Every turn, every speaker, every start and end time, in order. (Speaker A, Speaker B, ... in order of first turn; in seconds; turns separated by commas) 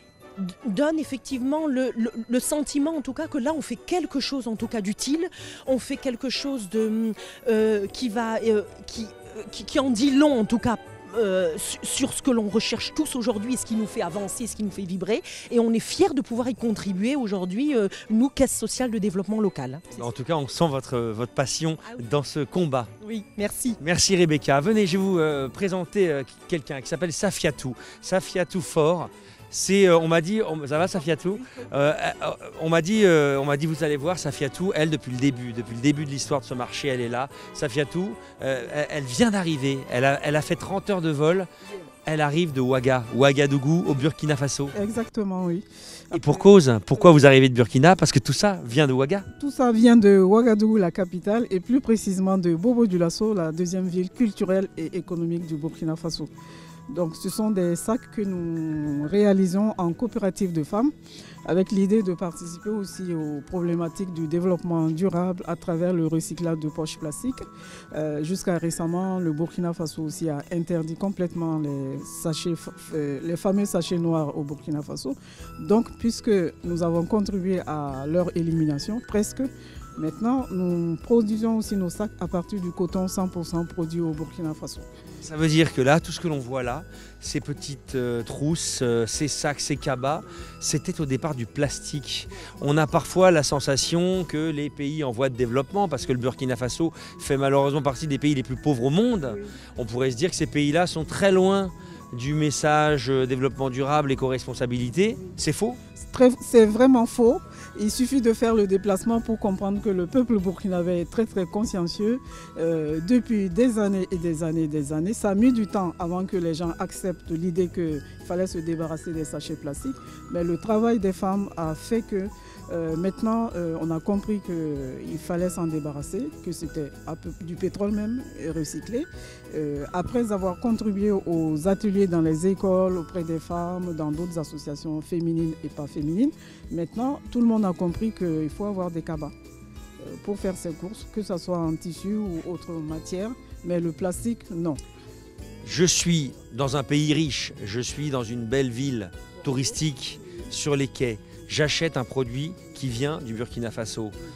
Speaker A: 0.4-20.1, Speaker B: 20.0-22.9, Speaker A: 23.0-23.8, Speaker B: 23.8-41.5, Speaker B: 42.1-44.7, Speaker C: 44.7-47.0, Speaker B: 46.1-49.3, Speaker C: 49.4-56.3, Speaker C: 56.9-60.9, Speaker C: 61.5-67.4, Speaker C: 67.9-84.9, Speaker B: 85.2-105.8, Speaker C: 106.0-139.3, Speaker C: 140.0-144.8, Speaker B: 145.6-154.2